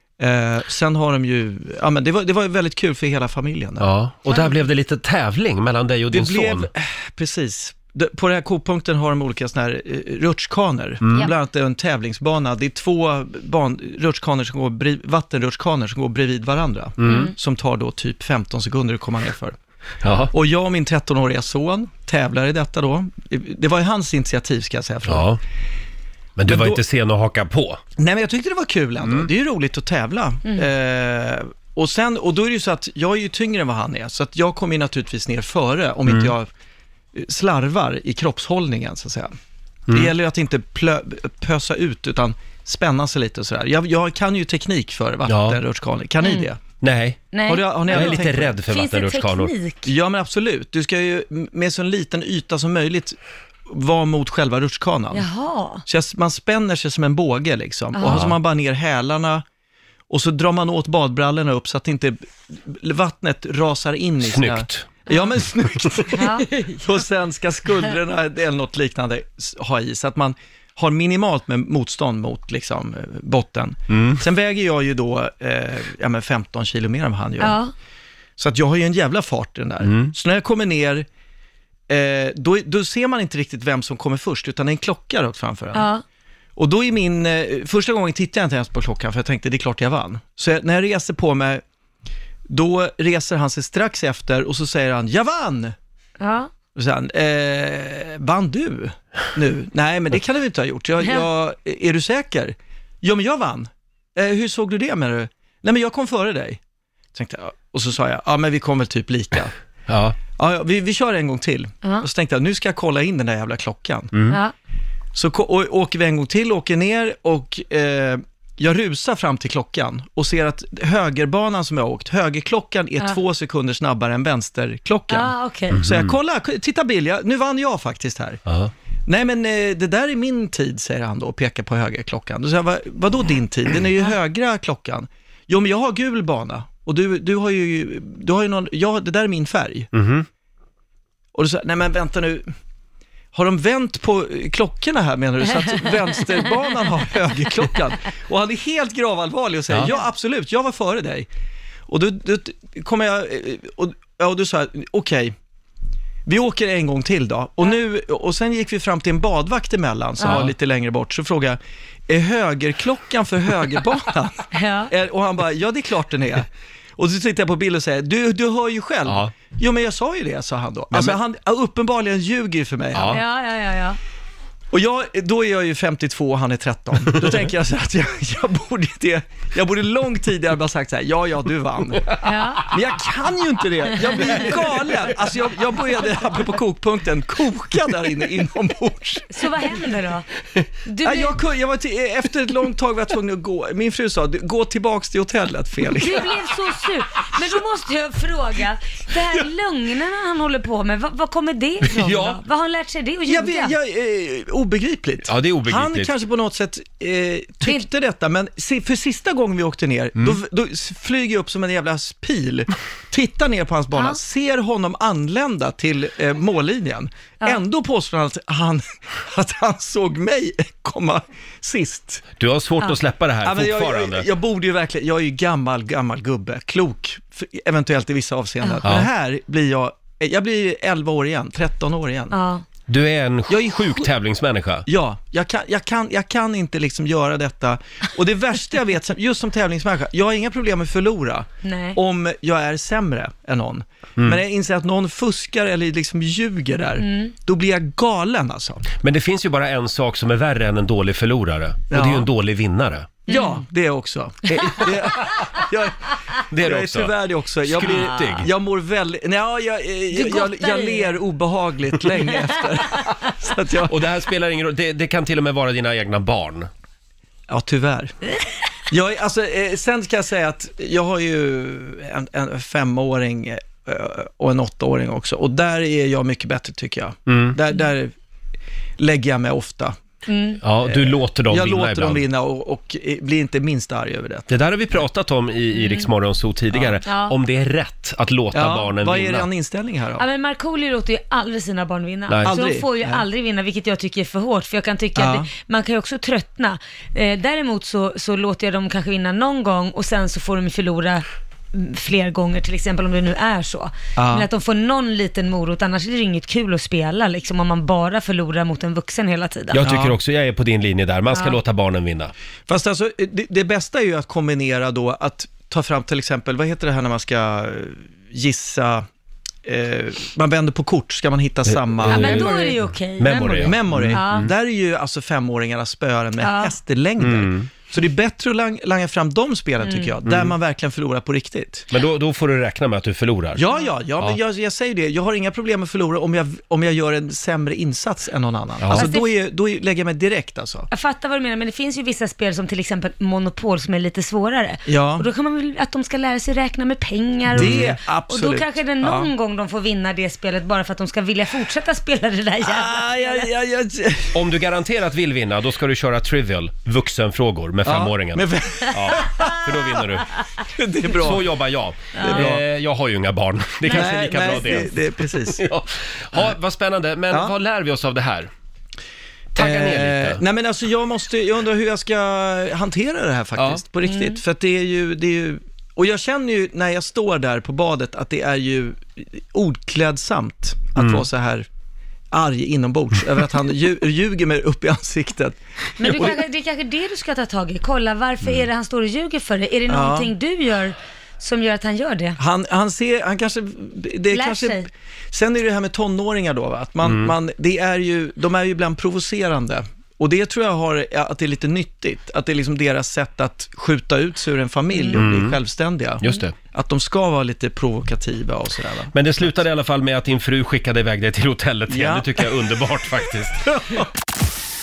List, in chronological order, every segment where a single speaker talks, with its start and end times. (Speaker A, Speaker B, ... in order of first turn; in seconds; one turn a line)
Speaker A: 0.2-3.9
Speaker B: 3.8-6.7
Speaker C: 4.3-4.6
Speaker A: 6.1-19.6
Speaker B: 17.0-17.3
Speaker C: 17.0-17.3
Speaker B: 20.0-20.3
Speaker A: 20.3-25.4
Speaker B: 25.1-25.4
Speaker B: 26.4-27.8
Speaker A: 26.5-26.8
Speaker A: 28.0-36.5
Speaker B: 29.0-29.3
Speaker A: 37.1-39.3
Speaker A: 39.9-46.6
Speaker B: 45.3-45.6
Speaker C: 46.2-46.5
Speaker B: 46.8-47.2
Speaker C: 47.3-49.9
Speaker A: 47.5-48.6
Speaker B: 47.9-49.5
Speaker A: 49.8-55.2
Speaker C: 55.1-55.8
Speaker A: 55.9-59.4
Speaker C: 57.9-58.2
Speaker B: 58.1-58.4
Speaker A: 60.1-77.6
Speaker B: 64.2-64.9
Speaker C: 65.1-65.3
Speaker C: 66.1-66.8
Speaker B: 73.9-74.2
Speaker C: 77.4-77.7
Speaker A: 78.4-81.0
Speaker B: 79.8-80.1
Speaker A: 81.9-85.9
Speaker C: 85.7-86.0
Speaker A: 86.5-91.6
Speaker A: 92.5-95.7
Speaker C: 96.2-96.5
Speaker A: 96.7-106.6
Speaker A: 107.1-109.5
Speaker B: 109.9-110.2
Speaker A: 110.3-114.1
Speaker B: 114.1-114.4
Speaker A: 115.1-128.4
Speaker C: 125.1-125.8
Speaker B: 125.7-126.1
Speaker B: 128.4-128.7
Speaker A: 129.1-139.9
Speaker B: 139.9-140.2
Speaker A: 141.3-142.4
Speaker A: 143.3-151.3
Speaker A: 151.9-155.3
Speaker A: 156.2-166.4
Speaker C: 160.2-160.5
Speaker C: 164.5-164.9
Speaker A: 167.0-173.2
Speaker B: 169.1-169.3
Speaker B: 172.9-173.2
Speaker C: 173.0-174.0
Speaker A: 174.7-189.6
Speaker C: 182.2-182.7
Speaker C: 183.9-184.5
Speaker C: 189.3-190.3
Speaker C: 190.8-191.4
Speaker A: 191.0-196.3
Speaker C: 196.0-203.7
Speaker B: 201.8-202.4
Speaker A: 203.2-222.2
Speaker B: 205.2-206.1
Speaker C: 213.9-214.2
Speaker B: 222.4-224.3
Speaker A: 223.4-232.3
Speaker B: 228.8-229.1
Speaker C: 232.3-232.6
Speaker B: 232.9-234.8
Speaker A: 233.5-234.1
Speaker A: 234.8-248.8
Speaker C: 241.6-242.0
Speaker C: 247.0-247.3
Speaker B: 249.0-253.2
Speaker A: 251.9-252.3
Speaker C: 253.3-253.6
Speaker A: 253.3-263.9
Speaker B: 254.6-255.5
Speaker B: 256.5-257.1
Speaker B: 257.6-258.5
Speaker C: 260.1-261.2
Speaker C: 262.4-263.1
Speaker B: 263.8-266.7
Speaker A: 267.5-268.1
Speaker A: 268.9-278.1
Speaker B: 277.3-277.6
Speaker A: 279.0-279.9
Speaker C: 280.3-280.6
Speaker B: 280.6-282.2
Speaker A: 280.8-284.5
Speaker B: 284.5-289.5
Speaker C: 285.7-286.1
Speaker A: 286.7-287.0
Speaker C: 287.0-287.3
Speaker A: 288.5-290.2
Speaker C: 290.2-309.8
Speaker B: 292.3-292.6
Speaker A: 292.4-293.2
Speaker A: 295.1-295.4
Speaker A: 304.2-304.5
Speaker B: 309.7-312.3
Speaker A: 309.8-310.2
Speaker C: 311.3-311.6
Speaker A: 312.7-319.0
Speaker A: 319.6-322.7
Speaker B: 321.7-322.5
Speaker C: 322.1-324.5
Speaker B: 323.2-324.4
Speaker A: 323.6-331.9
Speaker C: 326.4-326.7
Speaker B: 327.2-327.7
Speaker C: 329.8-330.2
Speaker B: 330.2-330.5
Speaker B: 331.9-333.6
Speaker A: 333.5-340.9
Speaker B: 338.8-339.1
Speaker C: 338.9-339.3
Speaker C: 340.9-353.5
Speaker A: 344.9-345.3
Speaker B: 347.5-347.9
Speaker A: 347.5-349.3
Speaker A: 352.6-354.4
Speaker B: 354.3-360.4
Speaker A: 357.8-360.0
Speaker A: 360.6-361.5
Speaker B: 361.1-368.5
Speaker C: 362.1-362.6
Speaker A: 362.1-362.6
Speaker A: 363.9-365.6
Speaker C: 363.9-364.8
Speaker B: 369.5-370.4
Speaker A: 369.6-381.7
Speaker B: 373.6-373.8
Speaker C: 374.0-374.4
Speaker B: 381.0-381.2
Speaker A: 382.3-386.4
Speaker C: 386.0-392.4
Speaker A: 389.9-390.3
Speaker A: 392.4-409.1
Speaker C: 394.3-394.9
Speaker B: 397.0-397.3
Speaker B: 405.1-405.6
Speaker B: 406.2-406.5
Speaker B: 409.1-414.0
Speaker A: 411.9-412.5